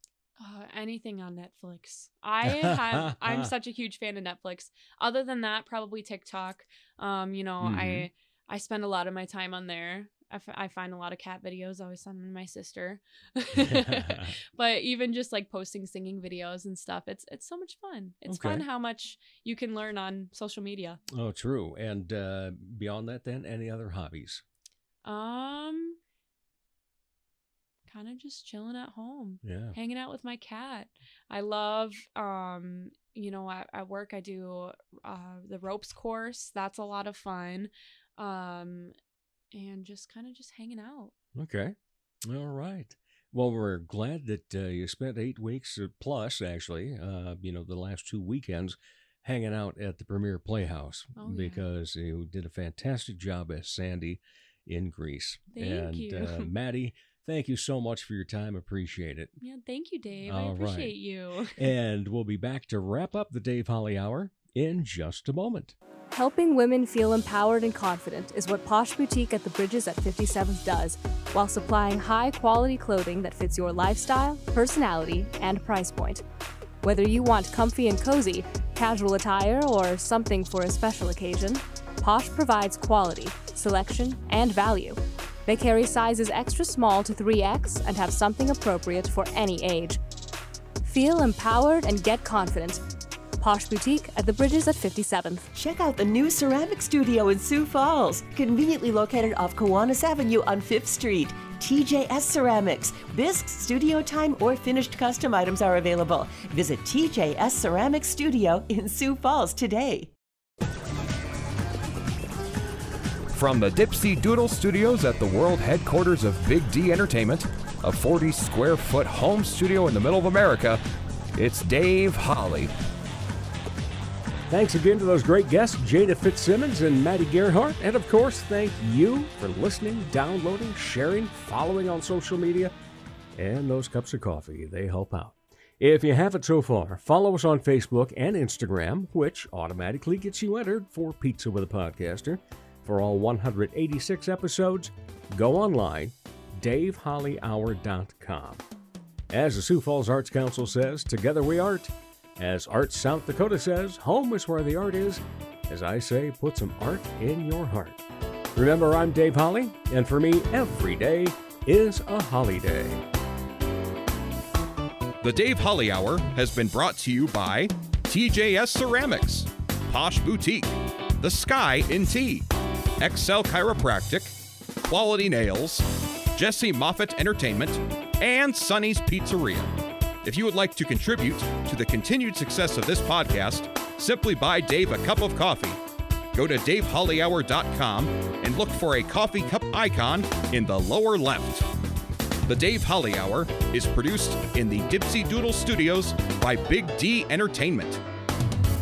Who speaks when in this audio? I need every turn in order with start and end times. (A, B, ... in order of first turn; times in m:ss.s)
0:00.4-0:21.0 A
0:02.4-0:03.5 B
0:07.6-0:08.1 B
0:13.6-0:14.4 B
0:18.3-0:18.6 B
0:21.1-0:24.4 B
0:25.0-0:26.0 A
0:27.9-0:38.9 A
0:29.4-0:29.8 B
0:39.5-0:41.1 A
0:41.4-0:59.3 B
0:51.2-0:51.6 A
0:55.5-0:56.5 A
0:59.4-1:01.6 A
1:00.3-1:00.9 B
1:01.6-1:05.8 B
1:06.1-1:16.2 C
1:16.8-1:30.0 C
1:30.8-1:32.8 C
1:33.4-1:35.5 C
1:35.5-1:50.1 D
1:53.3-2:00.8 E
2:01.4-2:02.7 E
2:04.5-2:12.7 B
2:13.4-2:28.6 B
2:29.3-2:38.0 B
2:38.6-2:43.0 B
2:45.2-2:52.5 E
2:53.0-3:05.8 E
3:06.3-3:11.7 E
3:12.5-3:18.0 E